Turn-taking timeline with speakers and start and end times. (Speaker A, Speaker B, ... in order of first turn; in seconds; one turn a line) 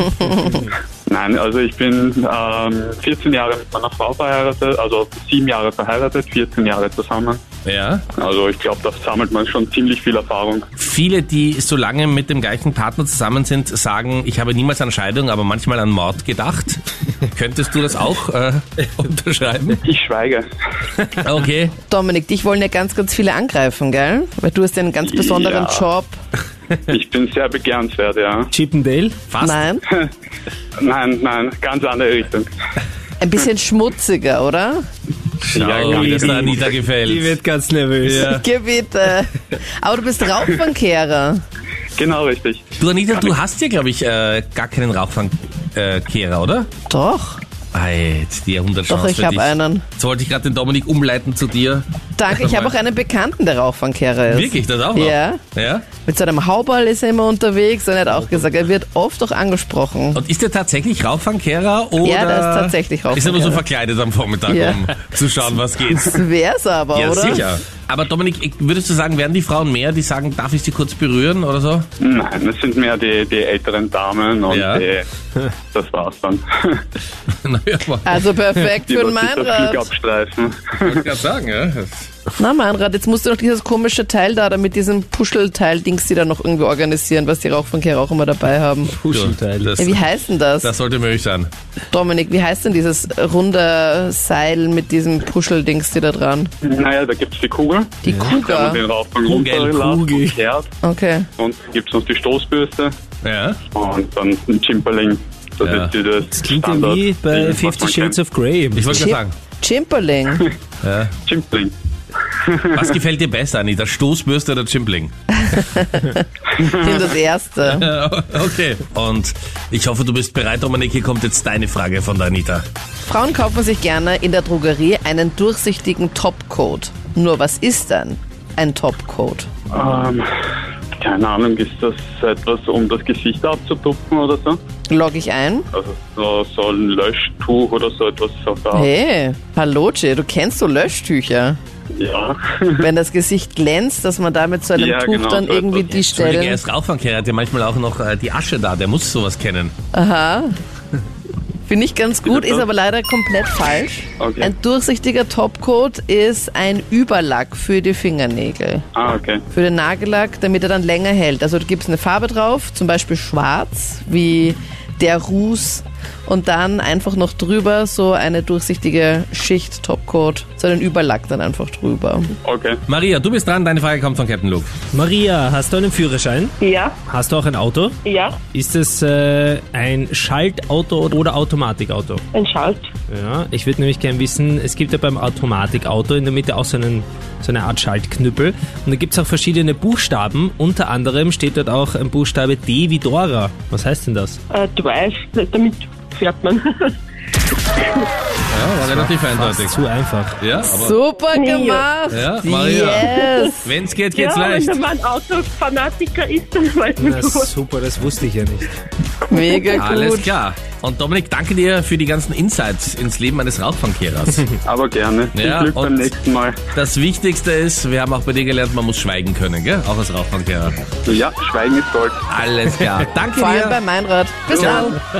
Speaker A: 0.4-0.7
Speaker B: 1.1-7.4
Speaker C: 7.7-8.1
Speaker B: 8.2-10.7
Speaker C: 10.8-19.8
Speaker B: 19.8-20.5
Speaker C: 21.2-21.8
Speaker D: 21.9-26.2
Speaker B: 25.0-25.9
Speaker B: 26.9-28.5
Speaker A: 28.5-29.2
Speaker C: 29.3-29.6
Speaker D: 29.4-29.8
Speaker B: 30.8-32.5
Speaker D: 33.2-34.8
Speaker C: 35.4-37.4
Speaker B: 35.6-36.7
Speaker A: 35.7-38.2
Speaker C: 38.1-38.4
Speaker D: 38.2-41.4
Speaker B: 42.0-42.7
Speaker C: 42.8-46.7
Speaker D: 46.9-47.4
Speaker C: 47.7-52.7
Speaker D: 48.9-49.9
Speaker D: 52.2-55.4
Speaker C: 54.3-55.9
Speaker D: 56.0-60.2
Speaker C: 60.1-66.2
Speaker D: 62.0-63.6
Speaker D: 64.5-64.8
Speaker D: 66.0-67.5
Speaker C: 67.0-71.9
Speaker B: 72.0-75.0
Speaker C: 74.5-74.8
Speaker B: 75.7-76.8
Speaker C: 77.4-78.2
Speaker D: 78.0-79.8
Speaker B: 78.9-81.0
Speaker C: 80.9-82.1
Speaker D: 82.4-89.0
Speaker A: 89.0-89.7
Speaker C: 89.1-90.1
Speaker D: 89.8-90.7
Speaker C: 90.6-91.5
Speaker D: 91.9-96.5
Speaker B: 96.6-100.7
Speaker D: 98.0-98.8
Speaker A: 98.1-98.4
Speaker C: 99.3-99.8
Speaker A: 99.8-100.2
Speaker D: 100.8-101.3
Speaker B: 101.4-103.0
Speaker C: 103.2-103.6
Speaker B: 103.7-108.2
Speaker C: 105.6-105.9
Speaker A: 106.3-109.1
Speaker C: 108.8-109.3
Speaker D: 108.9-110.5
Speaker C: 110.8-111.1
Speaker B: 111.2-111.7
Speaker B: 112.4-112.8
Speaker C: 112.7-115.1
Speaker D: 115.4-117.9
Speaker C: 117.6-122.7
Speaker D: 123.0-129.5
Speaker B: 129.7-130.3
Speaker B: 131.0-134.6
Speaker D: 134.9-135.7
Speaker B: 135.7-138.9
Speaker D: 138.7-141.6
Speaker B: 141.9-142.9
Speaker D: 142.8-146.6
Speaker B: 144.7-146.0
Speaker C: 146.1-149.7
Speaker D: 149.9-150.5
Speaker D: 151.7-158.9
Speaker B: 152.3-152.6
Speaker B: 154.2-154.5
Speaker B: 158.9-159.4
Speaker D: 159.5-172.3
Speaker B: 172.4-172.8
Speaker C: 172.9-174.7
Speaker A: 174.9-176.5
Speaker E: 176.6-177.0
Speaker A: 177.1-178.0
Speaker E: 178.1-178.4
Speaker A: 178.5-182.2
Speaker E: 182.3-182.9
Speaker A: 183.1-194.4
Speaker E: 194.5-196.9
Speaker E: 197.8-198.1
Speaker C: 198.5-199.8
Speaker A: 198.8-200.4
Speaker C: 200.4-201.0
Speaker D: 200.8-203.7
Speaker E: 201.3-201.9
Speaker C: 202.1-203.1
Speaker E: 203.2-203.5
Speaker C: 203.6-204.8
Speaker E: 204.1-207.5
Speaker A: 207.0-208.7
Speaker D: 209.3-210.3
Speaker C: 209.7-214.5
Speaker B: 214.6-216.6
Speaker C: 215.3-216.1
Speaker C: 216.7-220.8
Speaker B: 221.1-222.2
Speaker C: 222.3-223.8
Speaker D: 223.3-225.0
Speaker B: 224.5-225.0